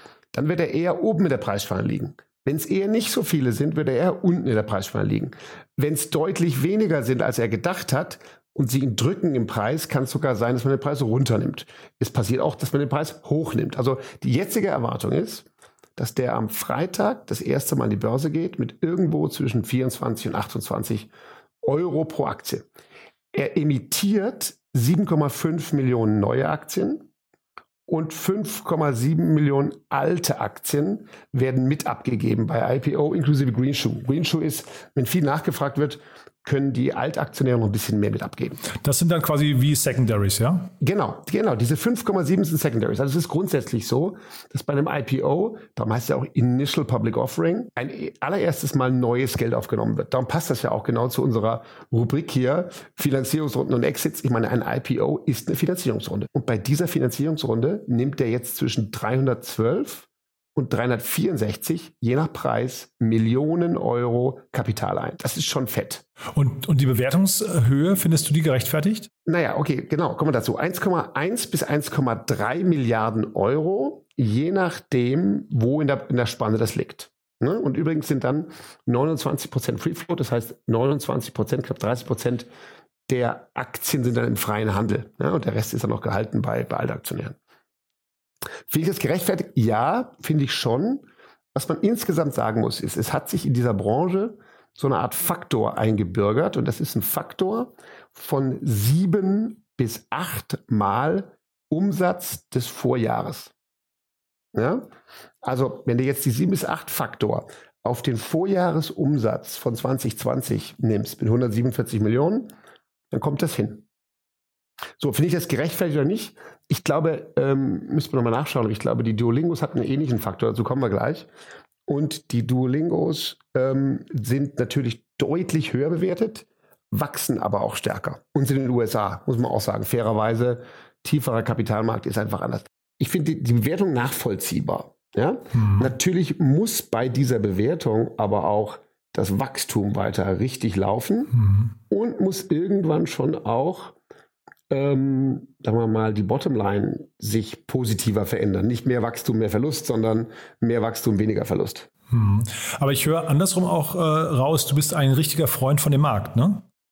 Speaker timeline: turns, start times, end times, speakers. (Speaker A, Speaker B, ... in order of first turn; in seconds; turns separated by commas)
Speaker A: 0.3-21.1, Speaker A: 21.6-22.7, Speaker A: 23.3-27.1, Speaker A: 27.9-38.6, Speaker B: 38.8-40.7, Speaker A: 40.8-66.0, Speaker B: 66.4-69.1, Speaker A: 69.3-82.5, Speaker A: 83.1-87.4, Speaker A: 88.7-103.5, Speaker A: 104.5-104.9, Speaker A: 105.4-112.5, Speaker A: 113.1-113.8, Speaker A: 115.0-121.3, Speaker A: 121.9-141.3, Speaker B: 135.6-135.9, Speaker B: 141.4-141.7, Speaker A: 141.9-143.9, Speaker A: 144.7-151.9, Speaker B: 152.1-156.6